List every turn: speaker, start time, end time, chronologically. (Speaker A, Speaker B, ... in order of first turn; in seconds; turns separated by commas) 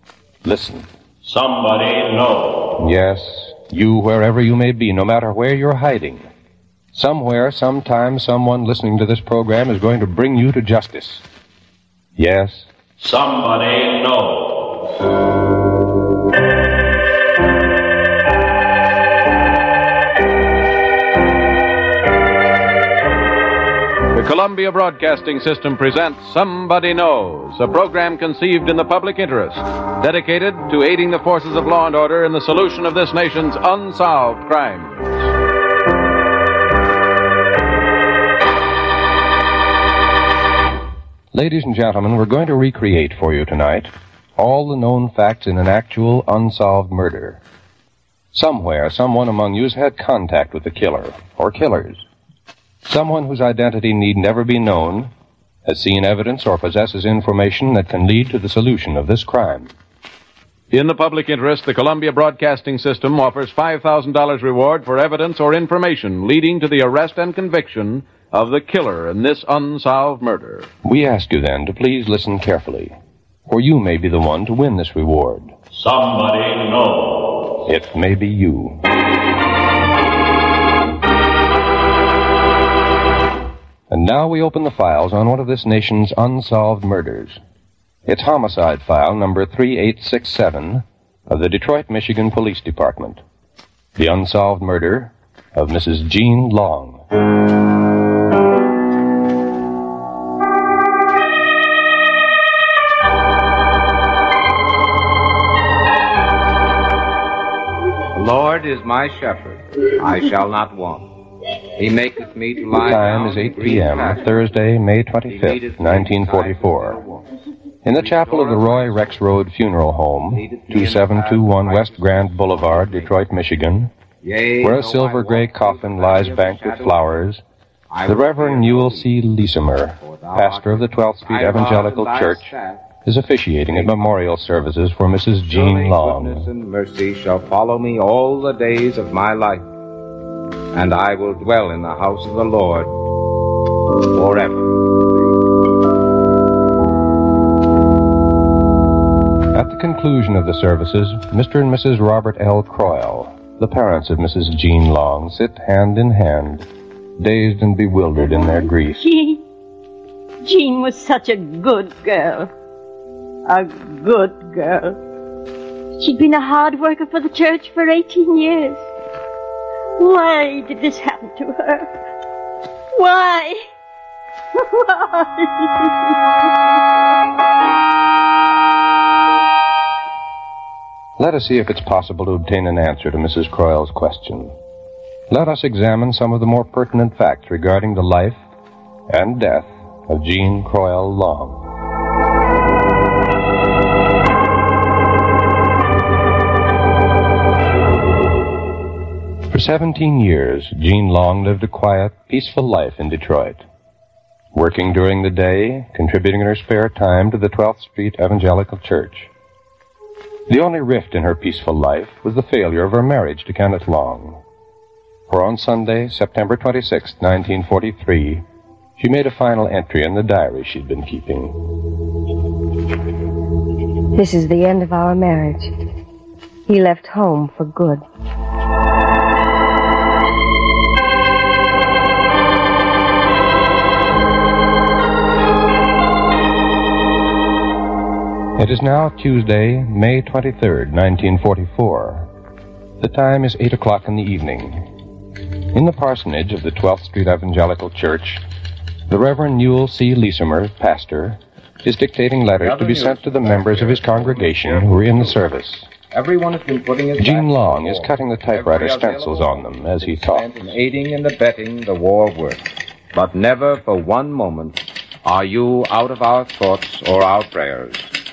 Speaker A: 0.4-0.9, Speaker A: 2.8-6.3, Speaker A: 6.9-11.2, Speaker A: 12.2-12.7, Speaker B: 24.1-35.1, Speaker A: 41.3-47.4, Speaker A: 48.3-52.0, Speaker A: 52.8-55.1, Speaker A: 55.6-59.7, Speaker B: 60.7-70.7, Speaker A: 70.8-72.9, Speaker A: 73.5-75.5, Speaker A: 77.6-78.8, Speaker A: 83.9-87.4, Speaker A: 88.0-93.2, Speaker A: 94.0-97.0, Speaker C: 108.1-111.1, Speaker C: 111.8-114.4, Speaker A: 112.7-117.0, Speaker C: 115.2-117.2, Speaker A: 117.8-123.9, Speaker C: 117.9-119.2, Speaker C: 120.3-123.2, Speaker C: 124.2-127.2, Speaker A: 124.6-127.4, Speaker C: 127.9-129.1, Speaker A: 128.0-136.5, Speaker C: 129.8-132.9, Speaker C: 133.7-134.1, Speaker C: 135.4-139.6, Speaker C: 140.7-142.9, Speaker C: 144.1-144.7, Speaker A: 149.5-156.7, Speaker A: 157.2-159.1, Speaker D: 158.2-159.4, Speaker D: 160.4-162.5, Speaker D: 163.5-165.0, Speaker D: 166.0-168.8, Speaker D: 170.0-171.9, Speaker D: 172.9-173.6, Speaker D: 174.6-176.1, Speaker A: 181.2-184.5, Speaker A: 185.3-188.4, Speaker A: 189.1-191.6, Speaker A: 199.5-203.6, Speaker A: 204.5-209.3, Speaker A: 210.5-214.4, Speaker A: 215.3-218.4, Speaker A: 219.0-221.6, Speaker E: 224.1-225.7, Speaker E: 226.7-228.0, Speaker A: 238.6-242.3, Speaker A: 243.0-244.8, Speaker A: 245.7-248.4, Speaker A: 249.1-255.9, Speaker C: 252.6-255.5, Speaker C: 256.0-268.1, Speaker A: 257.2-260.5